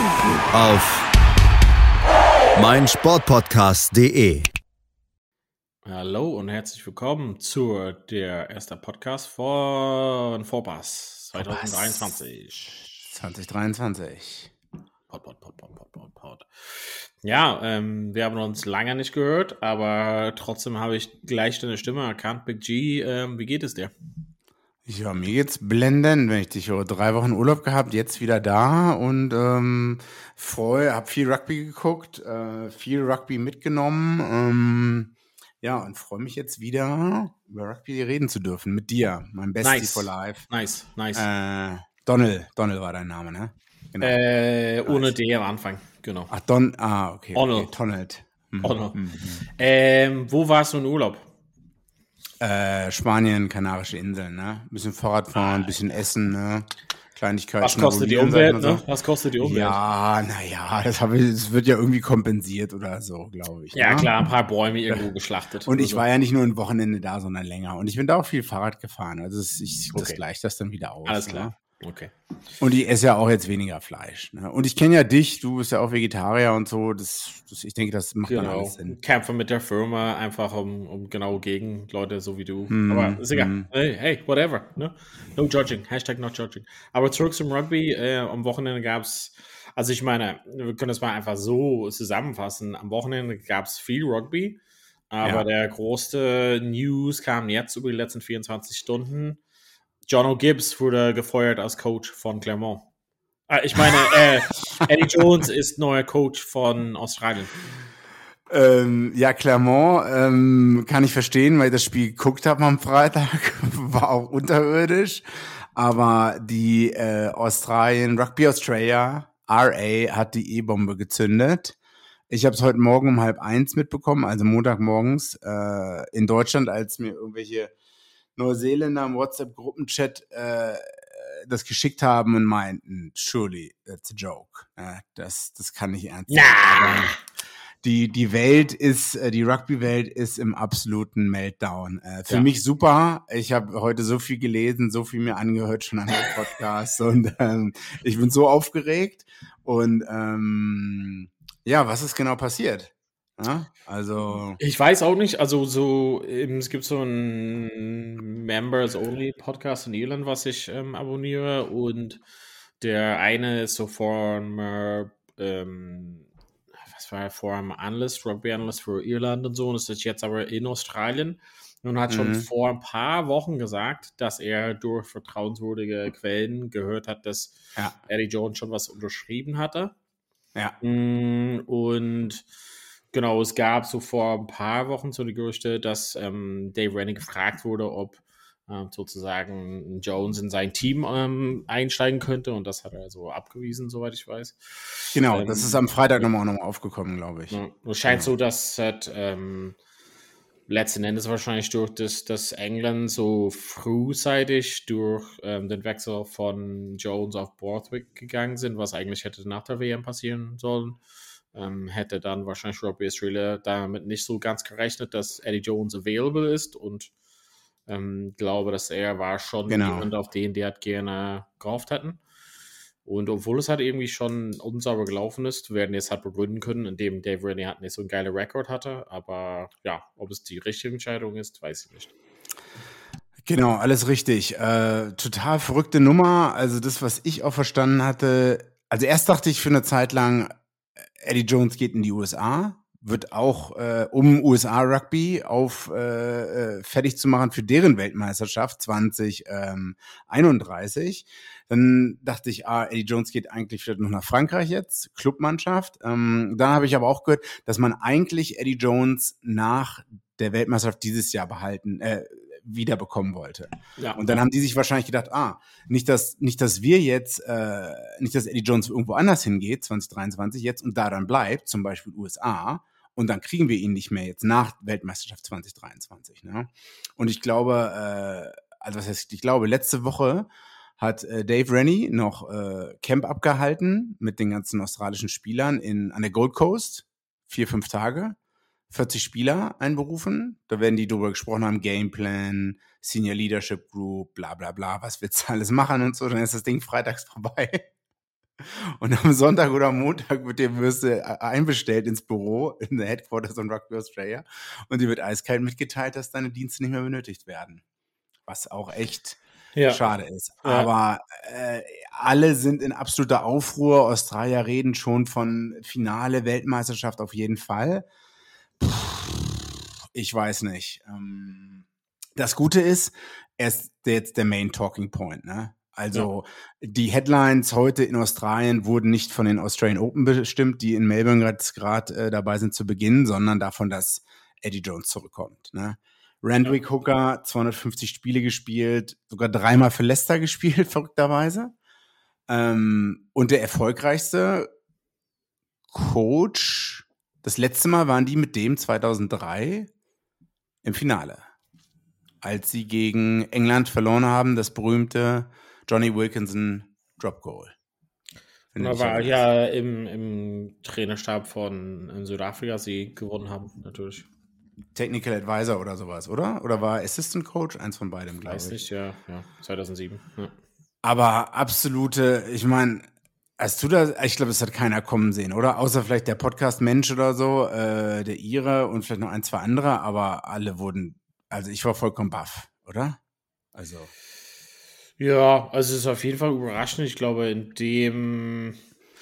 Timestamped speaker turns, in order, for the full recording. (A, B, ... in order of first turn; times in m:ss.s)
0:00.5-0:01.1 A
0:02.5-0:04.5 A
0:05.8-0:12.8 B
0:11.3-0:12.1 C
0:13.0-0:14.5 C
0:15.1-0:23.9 B
0:24.8-0:40.4 C
0:39.6-0:41.2 B
0:41.1-0:44.2 C
0:44.0-0:46.3 B
0:44.8-0:45.1 C
0:46.3-0:49.4 C
0:47.3-0:47.7 B
0:48.6-0:49.0 B
0:49.6-0:51.2 B
0:52.4-0:58.8 C
0:55.3-0:55.8 B
0:57.6-0:59.8 B
0:59.4-1:04.1 C
1:03.7-1:06.0 B
1:05.6-1:11.5 C
1:09.9-1:10.2 B
1:11.0-1:12.1 B
1:12.6-1:19.0 C
1:18.2-1:34.6 B
1:22.7-1:23.7 C
1:35.1-1:39.4 B
1:40.1-1:42.9 B
1:43.5-1:47.6 B
1:48.5-2:01.8 C
2:02.3-2:07.7 C
2:08.4-2:17.2 C
2:16.3-2:17.2 B
2:17.8-2:34.6 C
2:34.6-2:42.2 B
2:42.8-2:46.3 B
2:46.8-2:59.9 B
2:52.1-2:52.5 C
3:00.8-3:02.4 B
3:03.1-3:16.3 B
3:15.1-3:18.3 C
3:17.5-3:19.8 B
3:20.7-3:31.0 B
3:31.5-3:37.1 B
3:37.9-3:42.2 B
3:39.7-3:40.1 C
3:43.0-3:52.1 B
3:53.4-4:00.6 C
4:01.2-4:48.4 C
4:24.0-4:24.4 B
4:48.9-4:57.9 C
4:58.6-5:07.8 C
5:08.5-5:18.0 C
5:09.7-5:10.0 B
5:10.6-5:10.9 B
5:18.8-5:41.7 C
5:42.5-5:44.7 C
5:45.9-5:49.9 C
5:50.8-5:51.5 C
5:52.4-5:57.7 C
5:58.7-5:59.4 C
5:58.8-6:04.3 B
6:04.9-6:08.8 C
6:08.4-6:10.5 B
6:11.0-6:23.2 C
6:23.7-6:24.1 C
6:25.2-6:28.8 B